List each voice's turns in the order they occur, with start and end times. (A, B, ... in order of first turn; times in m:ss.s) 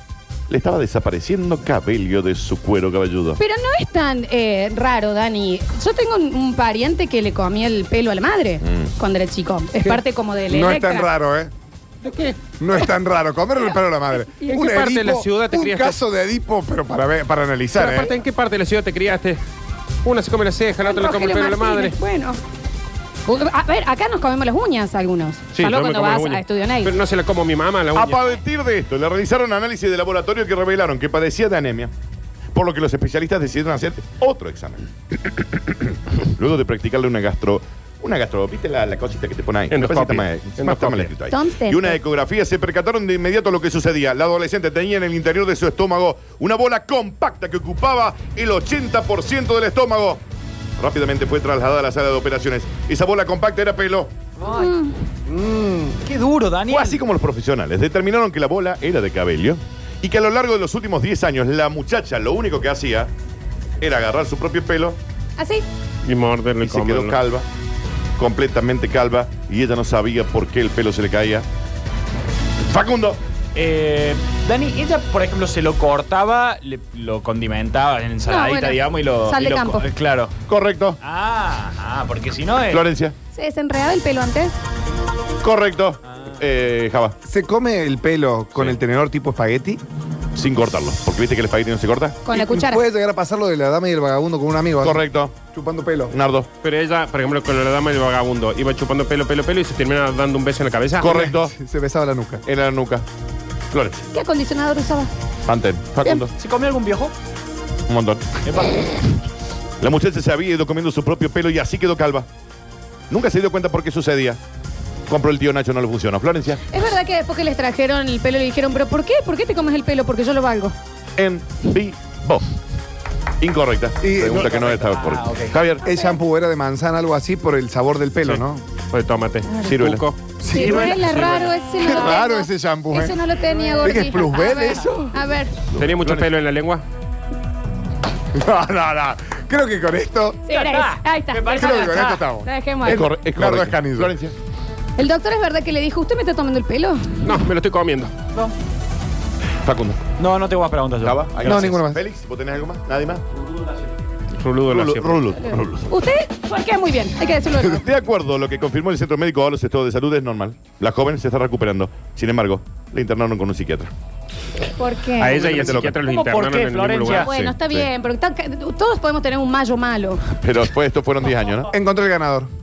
0:00.5-0:03.4 A
0:03.4-0:11.1 B
0:08.6-0:08.9 A
0:10.5-0:11.5 C
0:12.0-0:12.4 D
0:12.6-0:18.2 C
0:14.5-0:16.0 D
0:17.8-0:19.4 D
0:20.0-0:22.0 D
0:20.8-0:22.4 B
0:23.2-0:27.0 B
0:25.5-0:28.2 D
0:27.9-0:31.9 A
0:32.5-0:50.2 A
0:39.7-0:41.1 D
0:41.3-0:42.0 B
0:50.8-0:54.1 A
0:54.4-0:54.7 E
0:54.4-0:55.0 B
0:55.3-0:57.0 E
0:56.7-1:03.1 A
1:03.8-1:05.0 A
1:05.4-1:05.6 B
1:06.0-1:07.2 D
1:06.6-1:07.4 A
1:08.2-1:11.5 A
1:12.6-1:13.2 A
1:13.5-1:20.3 E
1:18.3-1:19.9 B
1:20.5-1:21.0 A
1:21.0-1:22.8 E
1:22.7-1:23.1 A
1:23.3-1:24.5 B
1:25.4-1:27.2 A
1:27.2-1:29.8 C
1:30.3-1:32.2 A
1:32.2-1:32.8 B
1:32.3-1:36.1 C
1:34.8-1:35.4 A
1:36.1-1:36.5 A
1:36.6-1:41.1 D
1:41.0-1:41.5 A
1:41.0-1:42.4 C
1:42.4-1:43.0 A
1:43.7-1:44.0 A
1:44.1-1:45.1 B
1:45.4-1:46.3 A
1:46.3-1:47.1 E
1:47.9-1:48.4 A
1:48.4-1:48.9 E
1:49.8-1:52.3 A
1:53.1-1:54.4 A
1:55.1-1:56.6 A
1:56.7-2:00.7 B
2:01.2-2:02.4 A
2:03.4-2:05.9 A
2:04.0-2:04.5 C
2:04.3-2:05.5 E
2:05.8-2:08.6 C
2:08.3-2:11.5 D
2:09.6-2:10.0 A
2:10.4-2:11.1 C
2:10.4-2:15.5 B
2:11.8-2:13.2 C
2:13.8-2:15.2 C
2:15.7-2:16.3 A
2:15.8-2:16.8 D
2:18.3-2:20.4 C
2:20.4-2:23.0 B
2:20.5-2:22.3 E
2:21.5-2:24.1 C
2:22.9-2:24.4 A
2:25.0-2:27.3 B
2:27.2-2:28.1 D
2:29.6-2:30.0 A
2:30.2-2:31.8 E
2:31.0-2:33.2 A
2:31.4-2:32.0 C
2:34.4-2:35.2 D
2:34.7-2:35.9 A
2:35.9-2:37.8 B
2:37.6-2:43.9 A
2:44.8-2:45.7 B
2:45.2-2:47.3 D
2:45.4-2:46.0 A
2:45.5-2:47.3 E
2:47.0-2:50.2 B
2:47.3-2:47.9 A
2:50.4-2:51.7 A
2:51.7-2:52.5 C